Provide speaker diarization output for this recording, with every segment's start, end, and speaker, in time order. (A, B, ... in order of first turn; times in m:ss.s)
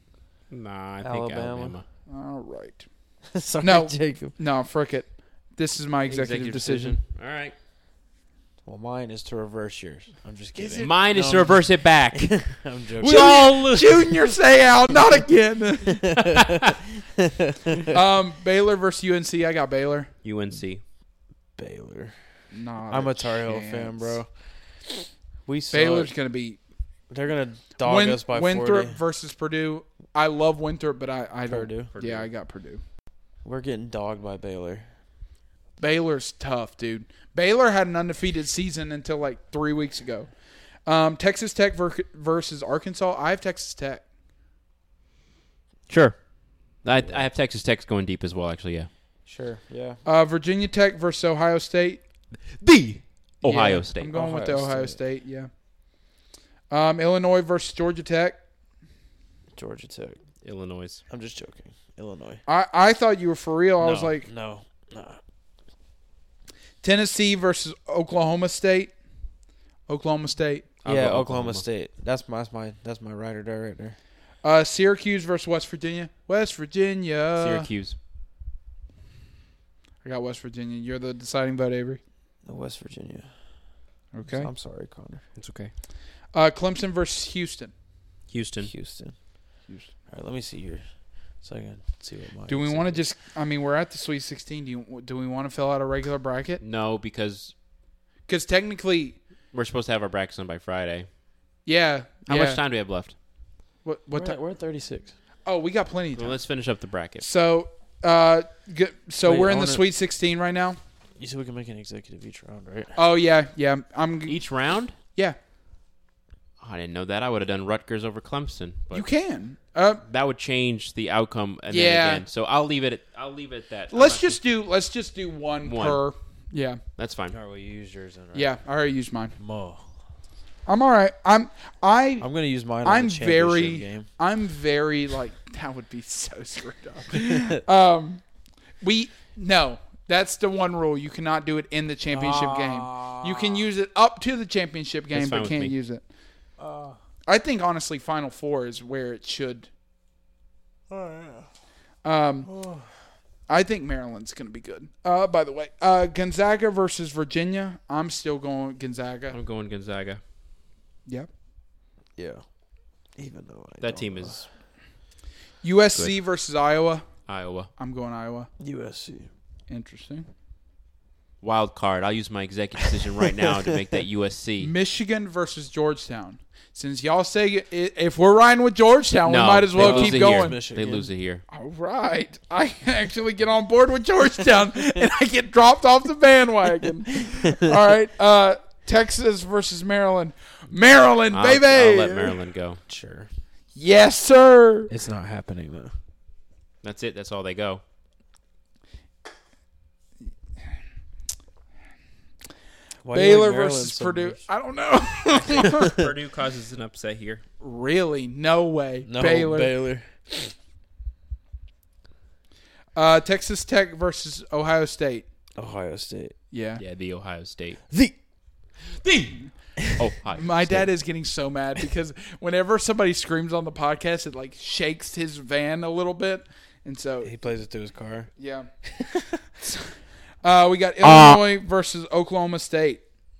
0:00.5-0:01.8 A
0:01.0-0:01.8 B
0:02.1-0:02.8 C
0:03.3-0:04.4 B
0:03.6-0:07.0 C
0:06.1-0:07.5 A
0:08.6-0:13.6 B
0:10.5-0:10.9 C
0:10.8-0:14.0 A
0:13.0-0:16.2 C
0:16.0-0:17.8 B
0:16.2-0:16.7 A
0:17.9-0:20.1 C
0:20.2-0:20.8 A
0:21.6-0:22.2 B
0:22.5-0:24.2 C
0:22.9-0:24.3 B
0:25.4-0:26.1 B
0:25.7-0:26.6 C
0:27.1-0:29.0 B
0:27.8-0:32.8 C
0:31.4-0:31.9 B
0:31.9-0:32.3 A
0:33.4-0:34.9 B
0:35.8-0:40.3 C
0:40.8-0:44.0 C
0:45.9-0:48.9 A
0:47.0-0:47.2 B
0:49.2-0:50.0 B
0:50.0-0:52.0 C
0:52.5-0:54.1 A
0:53.4-0:55.5 C
0:54.1-0:55.0 B
0:56.7-0:58.4 C
0:59.5-1:00.2 B
1:00.4-1:01.0 A
1:01.1-1:02.4 B
1:02.4-1:04.3 C
1:03.8-1:05.2 B
1:06.8-1:08.9 C
1:09.9-1:10.7 C
1:10.8-1:11.6 A
1:10.8-1:14.0 B
1:14.4-1:17.7 C
1:17.4-1:18.0 A
1:20.0-1:22.0 C
1:22.4-1:23.6 B
1:24.1-1:24.5 C
1:24.3-1:25.2 B
1:25.4-1:25.7 A
1:26.3-1:27.7 C
1:28.3-1:28.7 A
1:28.6-1:29.5 B
1:30.1-1:33.0 B
1:32.5-1:36.6 C
1:36.6-1:37.5 A
1:38.3-1:39.2 C
1:39.5-1:41.1 A
1:41.6-1:42.6 C
1:42.3-1:43.1 A
1:43.8-1:44.4 C
1:44.1-1:45.1 B
1:45.4-1:46.4 C
1:46.2-1:47.2 A
1:47.2-1:50.8 C
1:49.2-1:49.8 B
1:51.2-1:53.0 B
1:52.9-1:54.4 C
1:54.3-1:54.9 A
1:56.6-1:59.0 A
1:58.9-2:00.0 C
2:00.1-2:04.4 A
2:01.7-2:02.2 C
2:03.9-2:06.8 C
2:05.6-2:06.0 A
2:07.0-2:07.4 A
2:07.3-2:08.5 B
2:08.3-2:09.3 C
2:09.4-2:09.8 B
2:10.6-2:12.2 C
2:12.2-2:14.1 B
2:12.8-2:18.2 C
2:18.8-2:26.0 C
2:22.1-2:23.6 B
2:25.1-2:25.7 A
2:26.6-2:27.0 B
2:27.3-2:29.7 C
2:30.9-2:31.5 B
2:32.0-2:32.5 C
2:32.4-2:32.9 B
2:33.5-2:39.4 C
2:39.3-2:40.2 A
2:42.2-2:42.4 B
2:43.2-2:44.4 B
2:43.8-2:44.5 A
2:45.6-2:47.1 C
2:47.3-2:47.7 A
2:47.8-2:48.5 C
2:48.6-2:49.3 B
2:49.7-2:50.3 C
2:51.4-2:54.7 A
2:54.6-3:00.6 C
2:59.2-3:01.4 A
2:59.8-3:01.1 B
3:01.5-3:12.4 C
3:07.3-3:07.6 B
3:11.3-3:12.8 A
3:12.9-3:13.3 B
3:13.7-3:14.9 C
3:14.9-3:15.9 B
3:16.8-3:17.8 A
3:23.0-3:24.4 B
3:23.1-3:25.9 C
3:25.3-3:27.4 A
3:27.6-3:29.7 C
3:29.0-3:30.5 B
3:33.0-3:35.3 C
3:35.6-3:36.4 B
3:36.5-3:36.8 C
3:36.8-3:37.8 A
3:37.9-3:38.2 B
3:40.0-3:40.9 A
3:40.3-3:47.3 C
3:47.2-3:48.3 B
3:48.4-3:48.7 C
3:48.9-3:49.2 B
3:50.4-3:53.0 C
3:51.0-3:51.4 A